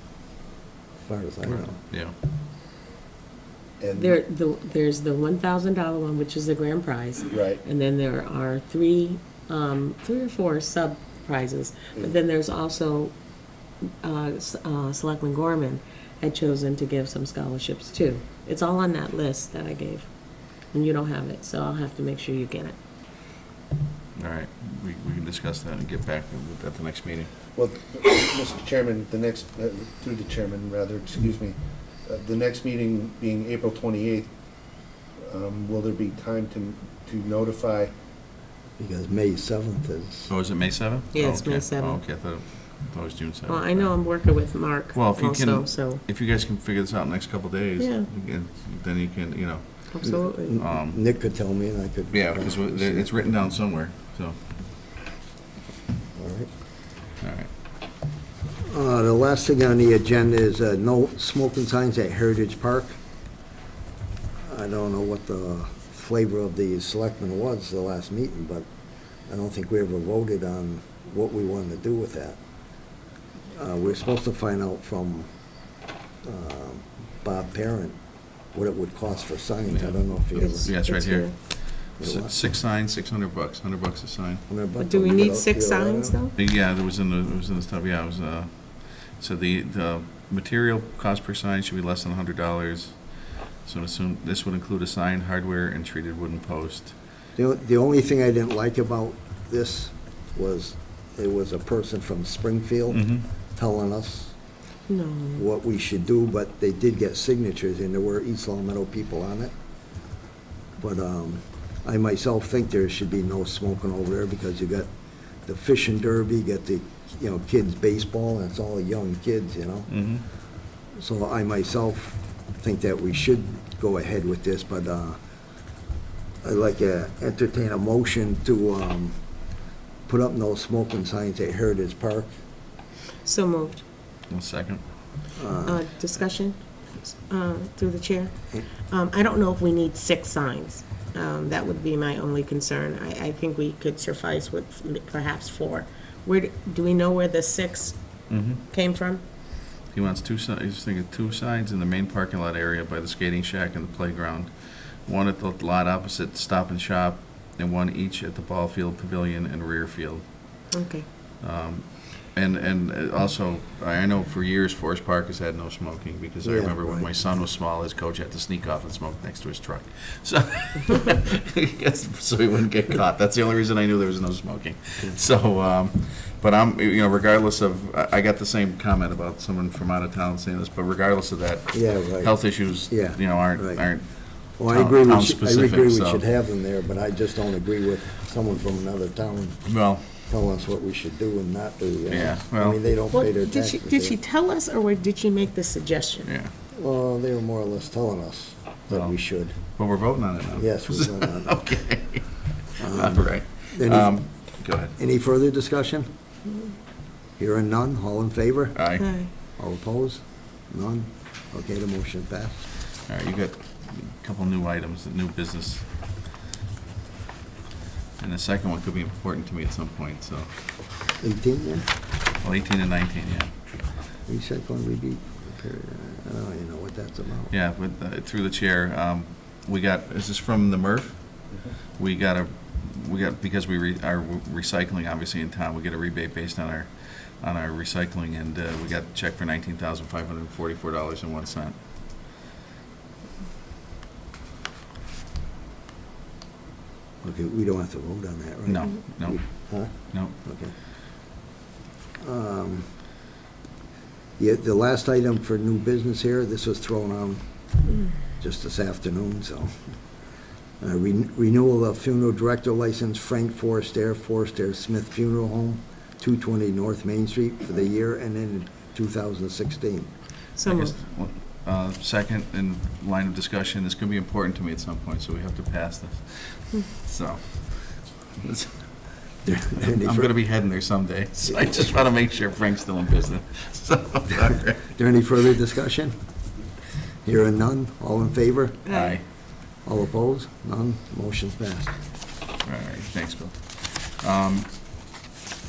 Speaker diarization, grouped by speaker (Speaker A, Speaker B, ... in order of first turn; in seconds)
Speaker A: 1.0-1.8, 38.8-40.3, 50.0-53.1, 56.1-56.5, 58.6-63.0, 64.4-68.7, 69.2-72.4, 73.5-75.3, 76.2-80.7, 82.0-82.3, 84.5-86.2, 97.3-104.3, 105.3-109.5, 110.8-114.9, 115.4-120.1, 121.0-125.2, 126.4-129.2, 130.1-132.3, 135.3-135.8, 166.4-167.1, 181.7-183.9, 184.5-194.2, 196.7-199.6, 200.5-201.7, 202.8-206.1, 207.4-208.8, 209.6-212.7, 221.2-221.9, 224.3-227.5, 247.2-250.7, 252.2-252.9, 254.4-257.4, 258.4-259.7, 260.8-270.1, 279.4-280.4, 284.9-286.1, 287.2-288.8, 289.8-292.0
Speaker B: 1.4-2.1, 24.1-27.3, 40.3-50.1, 50.6-51.0, 52.1-54.4, 57.2-57.5, 79.7-84.5, 86.4-96.9, 102.9-103.2, 119.9-120.2, 134.3-135.3, 148.3-148.6, 149.8-160.7, 161.4-186.2, 189.6-190.1, 192.1-192.8, 196.2-196.5, 198.9-204.9, 208.7-209.1, 212.8-215.9, 218.2-220.9, 222.4-223.5, 227.5-241.8, 248.7-250.3, 270.6-279.1, 279.8-284.9, 288.9-289.2, 292.6-294.7
Speaker C: 3.8-4.2, 7.2-7.6, 27.5-34.3, 35.2-37.9
Speaker D: 3.9-22.8, 41.1-42.0, 43.5-46.0, 47.8-48.1, 49.9-50.6, 80.4-81.3, 84.8-86.3, 104.9-105.4, 133.2-133.8, 135.7-149.2, 160.7-161.1, 193.1-196.3, 209.0-209.3, 270.6-270.9, 288.9-289.2